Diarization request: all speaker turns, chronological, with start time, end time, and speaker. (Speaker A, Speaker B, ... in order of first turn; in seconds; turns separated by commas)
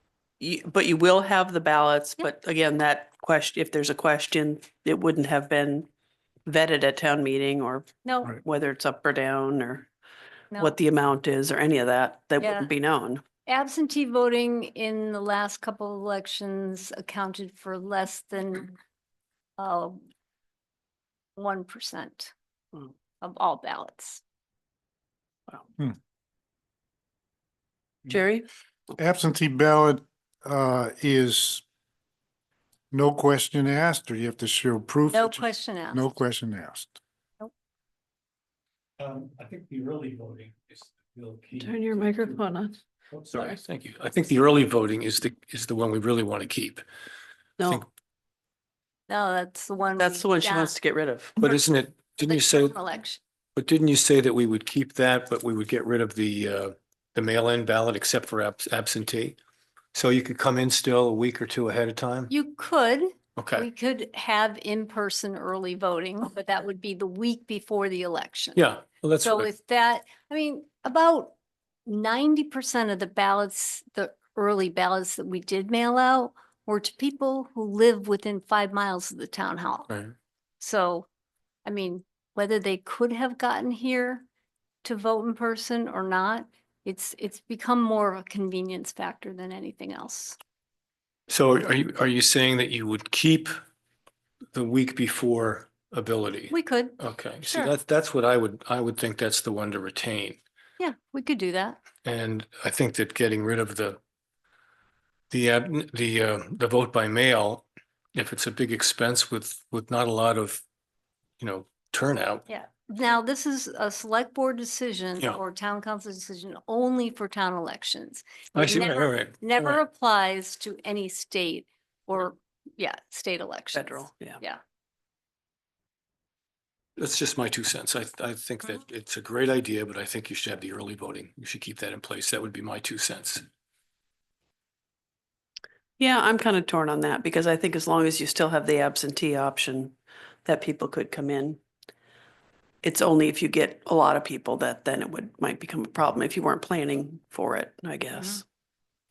Speaker A: 0.4-5.9, Speaker A: 6.5-9.9, Speaker B: 8.0-8.4, Speaker A: 10.6-13.3, Speaker B: 12.4-12.7, Speaker B: 13.4-18.7, Speaker B: 19.6-20.0, Speaker B: 21.4-22.3, Speaker B: 23.2-24.2, Speaker A: 28.1-28.5, Speaker C: 29.0-31.6, Speaker C: 32.9-37.0, Speaker B: 35.1-36.1, Speaker D: 39.0-42.5, Speaker A: 41.6-42.8, Speaker D: 43.1-46.8, Speaker A: 47.6-47.8, Speaker B: 49.1-50.7, Speaker A: 50.0-51.4, Speaker D: 51.4-52.8, Speaker B: 51.4-51.7, Speaker B: 52.2-53.2, Speaker D: 53.5-59.4, Speaker D: 59.9-62.3, Speaker B: 62.3-68.7, Speaker D: 63.4-63.7, Speaker D: 68.5-69.5, Speaker B: 69.2-71.3, Speaker B: 71.8-79.9, Speaker B: 80.6-81.1, Speaker B: 81.6-84.2, Speaker B: 84.8-90.4, Speaker D: 91.3-93.5, Speaker D: 94.5-100.4, Speaker B: 96.5-97.7, Speaker B: 100.8-101.8, Speaker D: 102.0-104.0, Speaker D: 105.3-110.6, Speaker D: 111.4-112.4, Speaker B: 112.5-124.6, Speaker D: 118.5-119.8, Speaker A: 123.7-124.4, Speaker D: 127.0-133.4, Speaker A: 136.0-139.9, Speaker A: 140.4-141.6, Speaker A: 142.8-148.4